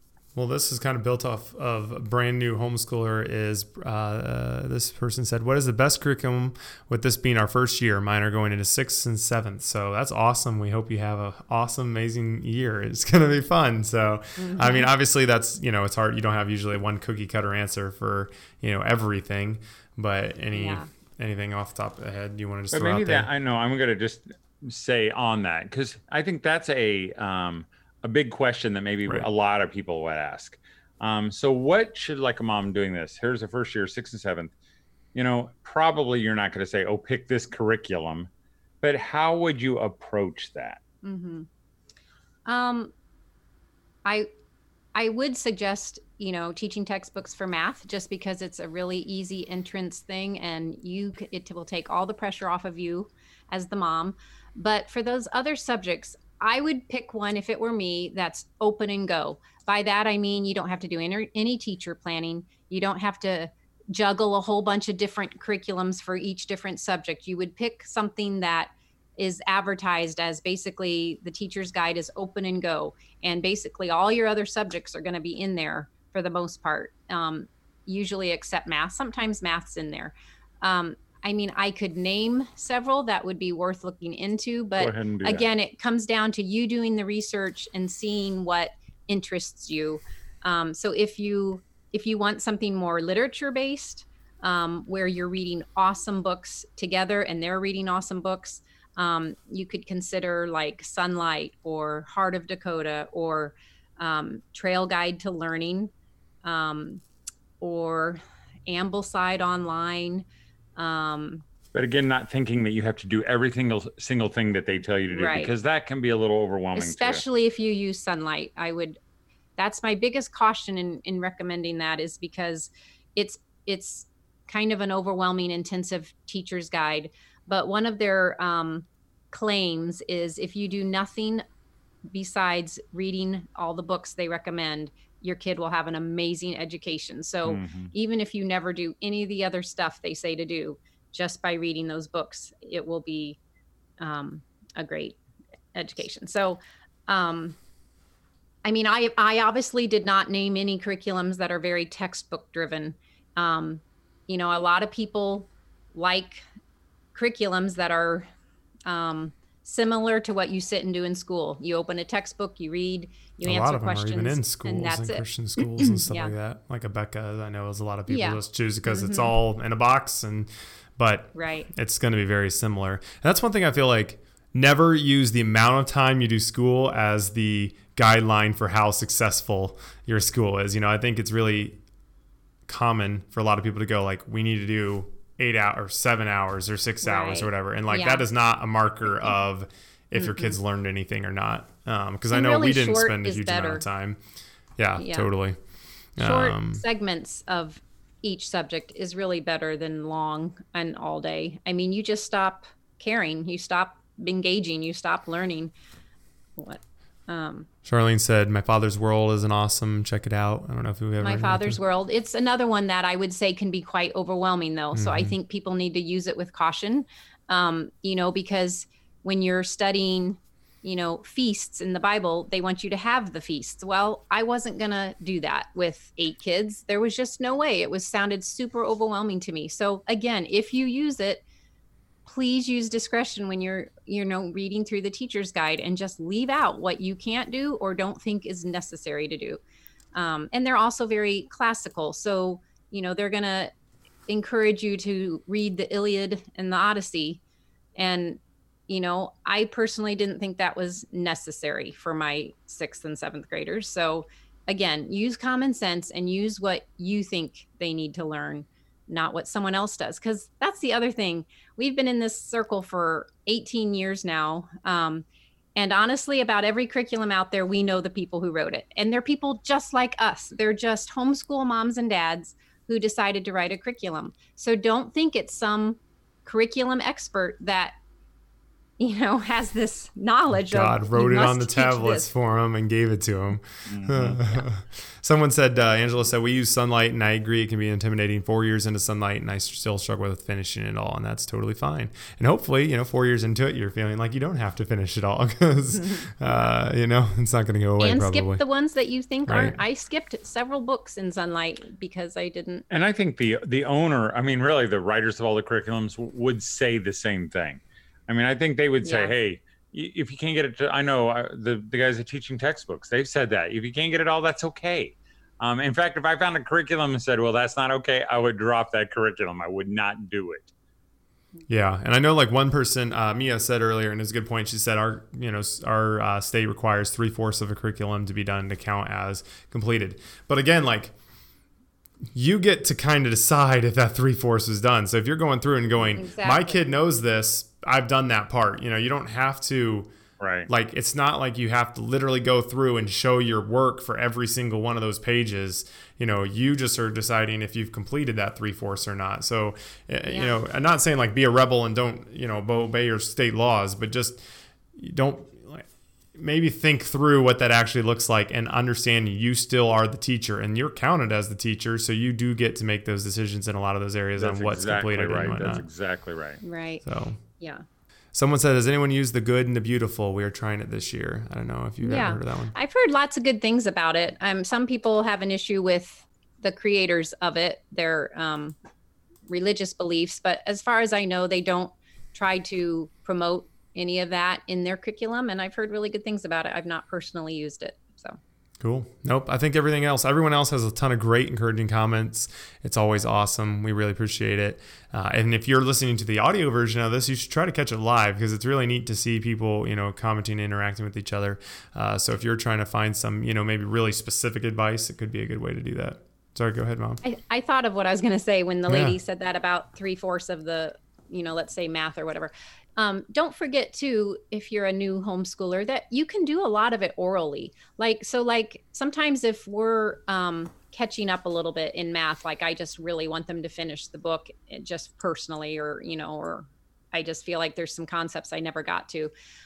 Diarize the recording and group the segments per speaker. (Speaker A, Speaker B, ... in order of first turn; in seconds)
Speaker A: 0.3-23.3, 163.4-181.8, 182.7-194.2, 194.8-195.6, 196.2-196.8, 207.8-211.8, 214.9-215.4, 280.6-298.6, 299.5-299.8, 321.7-331.1, 332.3-340.1, 340.7-354.4, 354.9-365.9, 367.0-367.4, 368.3-372.8, 388.8-407.2, 408.9-409.2
Speaker B: 14.4-14.9, 20.5-20.9, 41.0-41.5, 42.5-42.9, 45.0-105.9, 106.4-107.0, 107.6-111.4, 115.1-115.5, 116.8-119.0, 119.6-131.4, 132.1-143.4, 144.0-145.2, 145.7-147.6, 148.7-156.4, 157.1-158.3, 158.9-166.3, 168.1-169.3, 171.3-171.7, 187.0-188.2, 190.2-190.6, 192.3-193.8, 195.0-195.3, 196.2-205.7, 206.6-207.7, 211.2-231.4, 232.2-239.6, 240.1-243.7, 244.3-247.4, 248.0-265.2, 265.8-277.9, 279.0-282.3, 295.9-296.6, 298.0-302.9, 309.0-309.4, 336.1-336.8, 350.3-350.6, 366.6-367.0, 367.6-367.8, 372.0-378.8, 379.5-388.4, 407.2-429.3
Speaker C: 22.7-34.5, 35.1-38.3, 38.8-40.8, 84.8-85.5, 111.7-117.2, 137.4-137.9, 283.9-284.4, 302.9-320.7, 340.4-340.7, 364.4-366.6